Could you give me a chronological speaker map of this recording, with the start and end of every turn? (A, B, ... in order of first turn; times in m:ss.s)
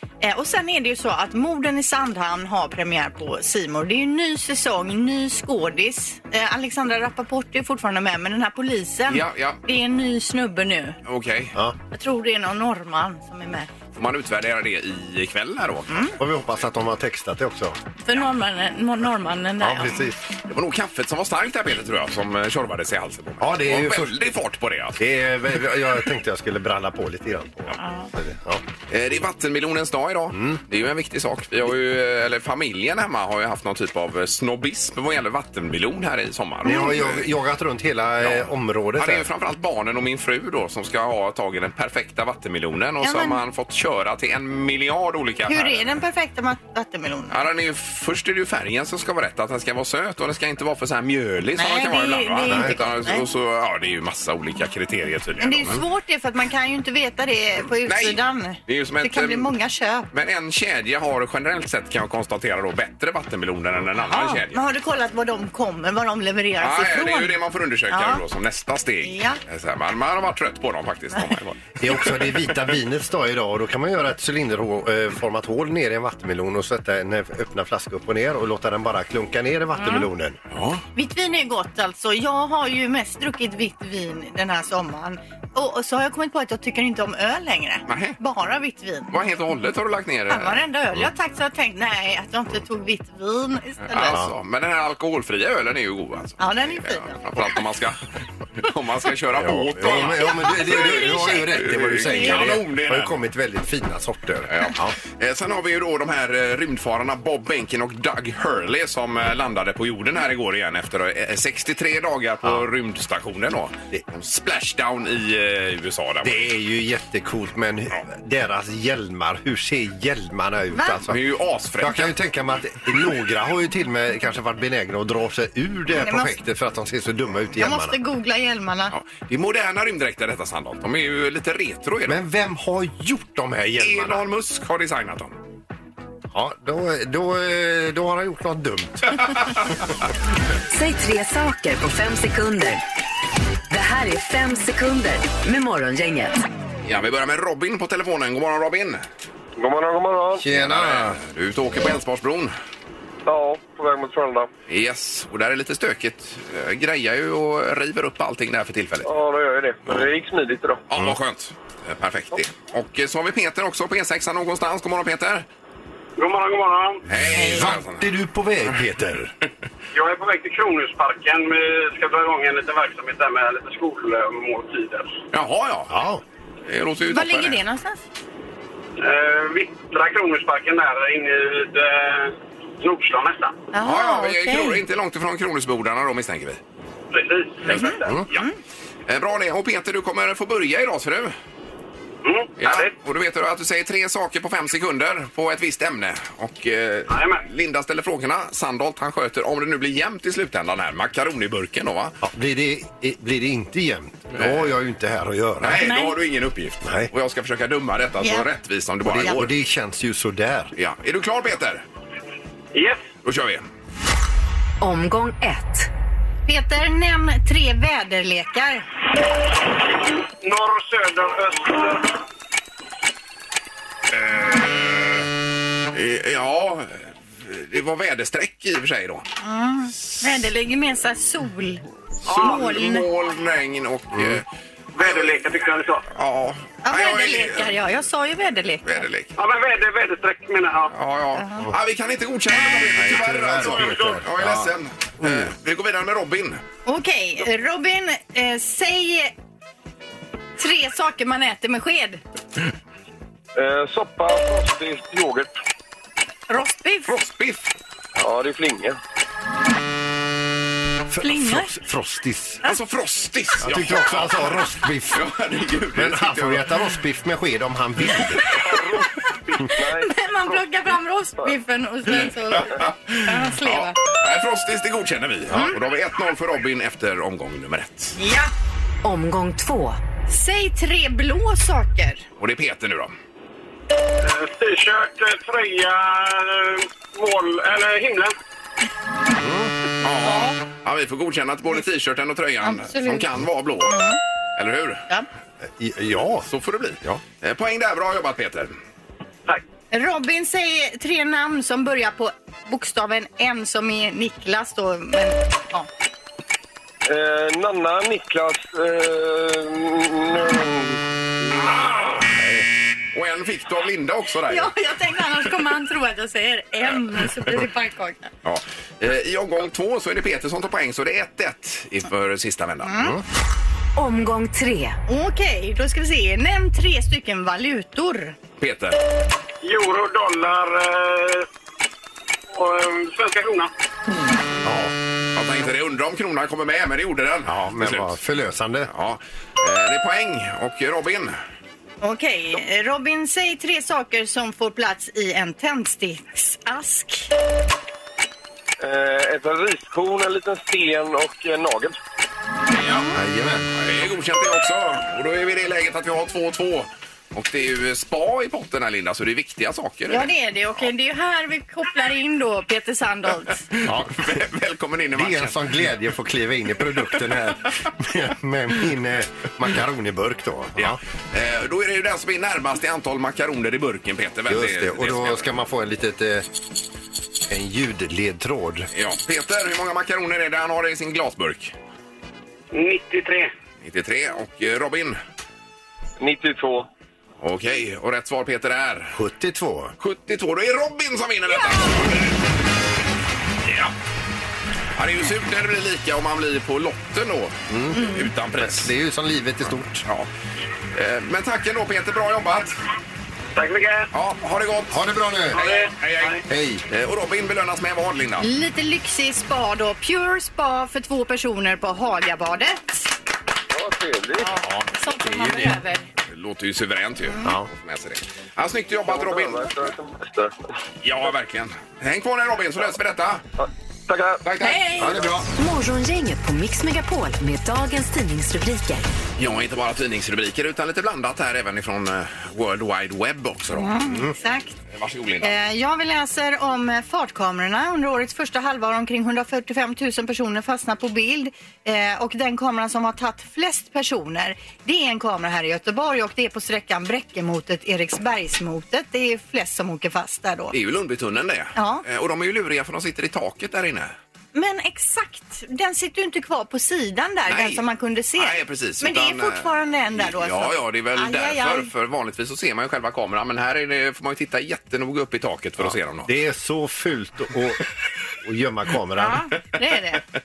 0:00.2-0:11.0 A
0:09.1-0:09.6 B
0:11.0-0:11.6 B
0:11.9-0:13.7 A
0:13.9-0:16.1 B
0:15.9-0:16.2 A
0:16.2-0:17.8 C
0:18.0-0:20.0 A
0:19.6-0:20.2 C
0:20.5-0:25.0 B
0:23.4-0:24.2 C
0:25.0-0:28.6 C
0:27.8-0:28.1 A
0:28.9-0:37.3 B
0:30.3-0:30.6 C
0:36.6-0:39.3 C
0:38.2-0:46.0 B
0:43.0-0:43.4 A
0:45.5-0:47.4 A
0:47.3-0:55.8 B
0:51.6-0:53.2 A
0:52.5-0:52.8 C
0:55.4-1:00.1 A
0:57.8-0:59.5 B
1:00.1-1:04.6 B
1:04.0-1:07.4 A
1:06.6-1:11.8 B
1:07.9-1:08.2 A
1:09.0-1:09.4 A
1:11.8-1:20.4 C
1:19.8-1:20.1 A
1:20.5-1:20.8 B
1:21.0-1:29.2 A
1:27.9-1:28.2 B
1:29.1-1:30.6 B
1:30.3-1:34.2 A
1:33.8-1:38.0 B
1:36.4-1:37.1 A
1:38.6-1:43.2 B
1:39.3-1:45.0 C
1:39.9-1:42.4 A
1:44.5-1:56.4 B
1:56.2-2:01.2 C
2:00.7-2:01.0 A
2:01.0-2:02.1 B
2:01.8-2:08.0 C
2:06.0-2:06.3 A
2:07.6-2:08.9 A
2:08.9-2:12.2 B
2:12.1-2:14.2 C
2:13.8-2:15.4 B
2:16.3-2:19.3 C
2:20.7-2:22.8 D
2:23.7-2:26.4 D
2:26.8-2:29.0 B
2:29.6-2:30.4 E
2:30.4-2:31.2 C
2:30.5-2:32.5 B
2:33.3-2:34.5 E
2:34.7-2:39.1 B
2:39.0-2:40.8 E
2:40.9-2:45.5 B
2:46.2-2:47.0 F
2:47.1-2:48.1 B
2:47.2-2:49.3 C
2:47.4-2:47.7 A
2:49.9-2:55.1 F
2:55.3-2:56.0 B
2:55.9-2:56.2 C
2:56.7-2:57.6 B
2:57.1-2:58.0 A
2:59.0-3:03.6 F
3:03.7-3:04.8 A
3:03.8-3:06.6 B
3:07.1-3:08.2 F
3:07.7-3:08.5 A
3:07.7-3:08.4 B
3:09.1-3:11.3 B
3:12.2-3:13.0 F
3:12.6-3:22.2 B
3:17.1-3:17.4 F
3:22.2-3:25.8 C
3:24.4-3:24.8 B
3:25.6-3:29.5 B
3:25.8-3:26.1 A
3:26.8-3:27.1 C
3:29.0-3:30.7 C
3:30.8-3:31.8 B
3:32.7-3:33.0 F
3:33.2-3:33.7 B
3:34.8-3:35.9 D
3:36.5-3:38.9 A
3:40.4-3:42.2 F
3:44.3-3:44.9 B
3:45.9-3:49.3 B
3:49.4-3:53.1 A
3:52.3-3:54.5 B
3:54.1-3:54.4 C
3:55.0-3:56.0 F
3:56.1-3:57.7 B
3:56.8-3:59.0 A
3:58.8-3:59.3 B
3:59.4-4:00.9 F
4:00.9-4:06.6 B
4:02.8-4:05.5 C
4:06.9-4:09.3 A
4:10.6-4:12.2 A
4:13.6-4:15.5 E
4:16.5-4:17.1 A
4:17.1-4:17.7 B
4:18.2-4:19.0 E
4:21.1-4:22.6 C
4:21.2-4:21.7 A
4:22.6-4:26.8 B
4:23.6-4:25.2 C
4:25.9-4:28.4 C
4:28.6-4:30.6 E
4:29.7-4:34.0 A
4:32.5-4:38.2 B
4:38.2-4:38.5 A
4:39.0-4:40.0 D
4:40.3-4:42.2 A
4:42.4-4:43.1 B
4:44.2-4:48.3 F
4:49.4-4:49.7 C
4:50.0-4:54.0 B
4:50.2-4:50.6 A
4:52.6-4:53.3 A
4:53.8-4:54.2 A
4:54.6-4:55.0 B
4:55.7-4:56.5 C
4:56.4-4:58.8 B
4:59.9-5:05.9 A
5:07.1-5:11.7 E
5:11.8-5:12.4 B
5:13.1-5:14.7 B
5:14.5-5:18.3 A
5:18.4-5:23.0 B
5:22.8-5:23.2 A
5:24.0-5:25.0 D
5:25.1-5:28.4 A
5:28.6-5:29.0 B
5:29.6-5:31.5 F
5:32.5-5:33.7 F
5:34.6-5:34.9 C
5:35.4-5:38.2 B
5:37.5-5:38.9 C
5:38.9-5:41.4 B
5:42.0-5:47.3 A
5:48.8-5:52.0 E
5:52.8-5:53.1 B
5:53.2-5:53.7 C
5:53.8-6:00.3 B
6:00.1-6:03.6 A
6:03.7-6:05.7 B
6:03.8-6:04.2 C
6:05.2-6:11.0 C
6:10.8-6:15.5 B
6:14.5-6:16.5 C
6:17.5-6:18.9 C
6:18.9-6:21.8 B
6:22.7-6:23.5 F
6:23.8-6:25.2 B
6:26.2-6:26.9 E
6:27.4-6:29.2 B
6:29.1-6:29.9 C
6:30.0-6:32.4 B
6:33.7-6:33.9 B
6:35.0-6:38.9 B
6:37.7-6:38.0 C
6:38.6-6:40.0 C
6:40.9-6:42.8 B
6:43.6-6:44.1 F
6:44.1-6:48.5 B
6:44.9-6:45.6 C
6:45.6-6:46.4 F
6:46.5-6:46.8 C
6:48.4-6:53.1 A
6:53.7-6:54.5 E
6:54.4-6:56.1 A
6:55.3-6:55.7 C
6:56.3-6:59.7 B
6:57.4-6:57.7 C
6:59.0-7:00.6 E
7:01.0-7:03.4 B
7:03.6-7:04.4 E
7:04.4-7:05.3 B
7:04.6-7:05.2 A
7:05.0-7:05.5 C
7:05.6-7:09.1 D
7:09.4-7:13.9 B
7:13.7-7:14.8 A
7:14.9-7:15.6 B
7:15.4-7:30.8 A
7:30.7-7:34.1 B
7:31.8-7:32.0 A
7:34.5-7:41.9 A
7:37.5-7:37.8 B
7:38.4-7:46.3 B
7:45.8-7:47.8 C
7:48.4-7:49.4 C
7:49.2-7:50.2 A